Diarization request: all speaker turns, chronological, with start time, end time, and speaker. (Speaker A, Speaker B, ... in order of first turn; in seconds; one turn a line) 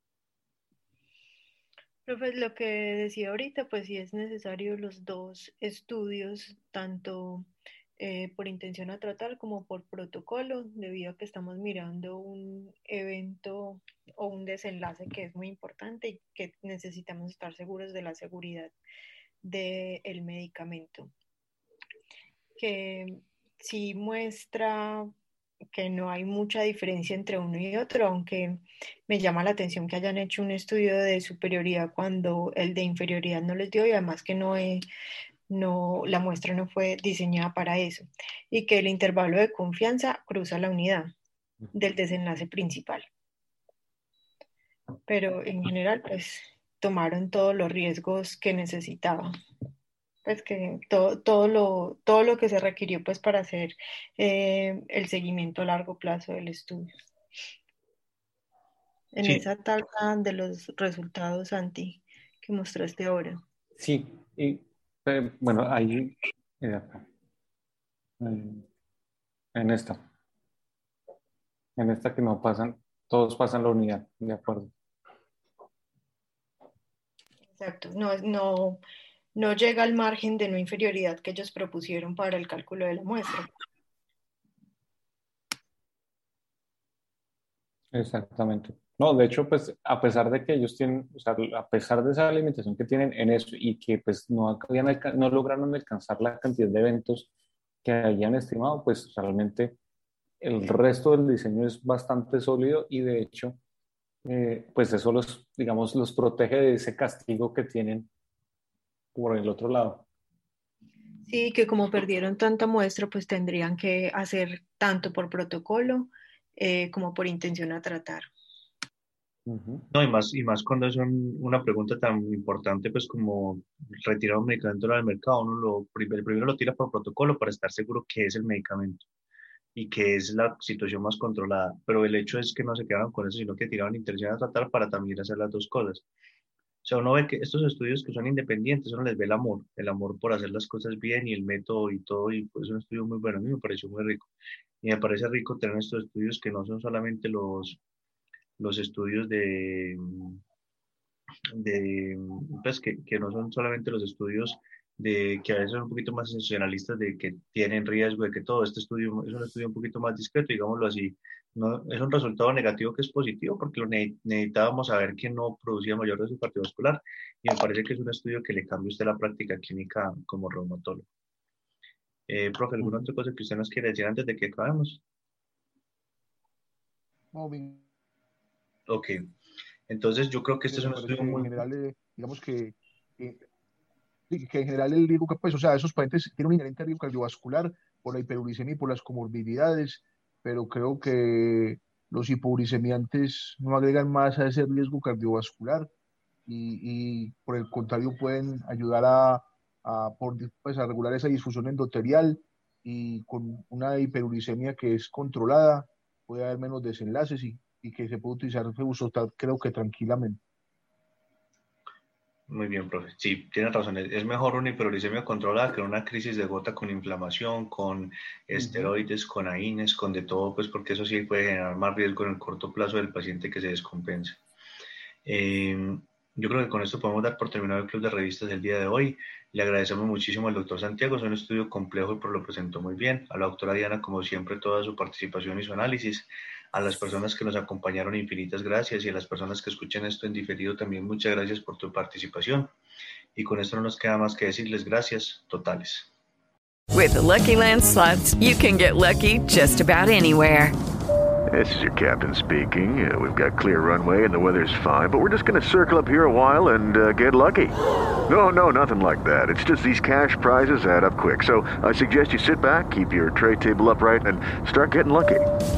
Speaker A: 2.0-18.7
Speaker A: 19.4-21.1
Speaker A: 22.6-25.1
Speaker A: 25.7-34.9
Speaker A: 35.5-41.1
Speaker A: 41.7-43.0
Speaker A: 45.1-49.3
Speaker A: 50.2-56.9
Speaker A: 59.1-63.4
Speaker B: 63.8-67.0
Speaker B: 68.2-68.6
Speaker B: 69.5-70.0
Speaker B: 71.8-74.7
Speaker A: 77.5-78.8
Speaker A: 79.3-83.5
Speaker B: 87.9-97.3
Speaker B: 97.8-99.8
Speaker B: 100.4-103.6
Speaker B: 104.2-108.1
Speaker B: 109.1-110.0
Speaker A: 111.2-118.3
Speaker B: 119.5-119.8
Speaker C: 119.9-129.0
Speaker C: 129.7-136.0
Speaker C: 136.8-144.3
Speaker C: 144.8-147.8
Speaker C: 148.6-150.4
Speaker C: 151.5-171.1
Speaker C: 172.3-175.0
Speaker D: 177.3-177.8
Speaker C: 178.9-179.3
Speaker C: 179.9-181.6
Speaker D: 180.7-183.4
Speaker D: 184.3-195.9
Speaker D: 196.4-210.4
Speaker C: 212.5-224.4
Speaker B: 218.5-218.9
Speaker C: 225.2-242.7
Speaker C: 243.3-246.1
Speaker E: 246.9-250.7
Speaker F: 251.5-257.7
Speaker F: 258.3-265.4